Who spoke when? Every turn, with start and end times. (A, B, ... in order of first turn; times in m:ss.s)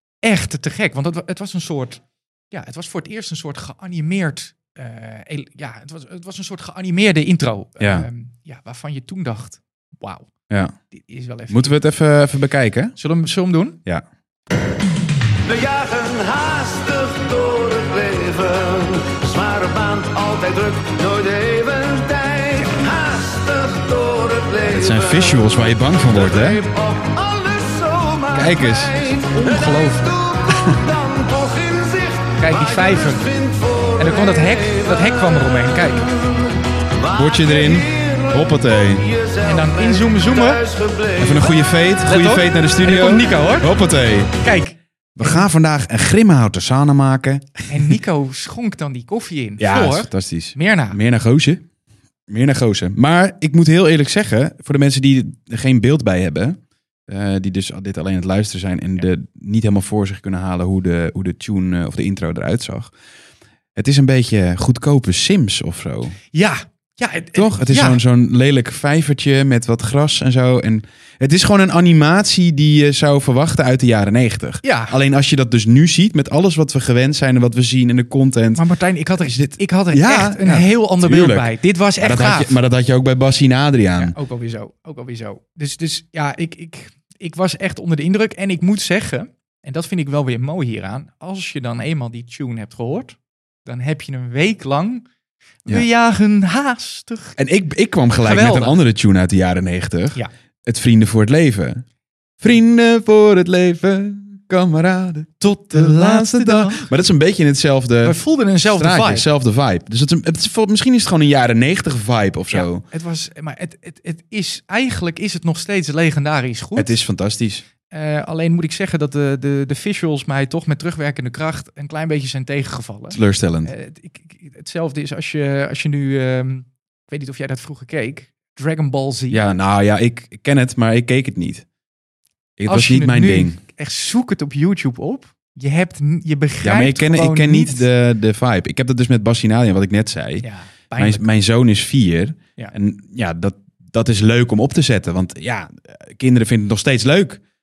0:00.2-0:10.3 A
0:07.8-0:08.1 B
0:10.5-0:10.8 B
0:10.9-0:11.8 A
0:11.5-0:12.9 B
0:13.0-0:13.8 A
0:15.5-0:25.3 C
0:22.5-0:22.9 A
0:24.6-0:26.6 B
0:26.2-0:34.8 C
0:28.3-0:29.0 B
0:29.2-0:30.2 A
0:30.5-0:30.9 B
0:32.4-0:33.3 A
0:34.0-0:36.1 A
0:37.0-0:38.3 C
0:37.1-0:39.1 B
0:39.1-0:39.8 C
0:39.4-0:40.7 A
0:40.4-0:41.6 C
0:41.2-0:44.4 B
0:42.0-0:43.7 A
0:44.4-0:45.4 A
0:45.2-0:47.9 B
0:47.7-0:51.0 A
0:49.6-0:51.6 B
0:52.3-1:02.9 B
1:03.8-1:06.2 B
1:06.3-1:08.0 A
1:07.3-1:18.6 B
1:14.6-1:14.9 A
1:18.6-1:22.5 A
1:19.3-1:24.2 B
1:24.0-1:35.0 A
1:35.6-1:37.4 A
1:37.4-1:41.8 B
1:38.2-1:38.8 A
1:42.4-1:48.2 B
1:45.4-1:46.9 A
1:48.0-1:49.2 A
1:48.7-1:52.8 B
1:52.5-1:57.0 A
1:56.8-1:57.6 B
1:57.9-2:09.4 A
2:03.1-2:03.7 B
2:09.3-2:11.6 B
2:12.6-2:13.6 B
2:12.7-2:17.8 A
2:16.6-2:20.4 B
2:20.4-2:21.3 A
2:21.0-2:27.4 B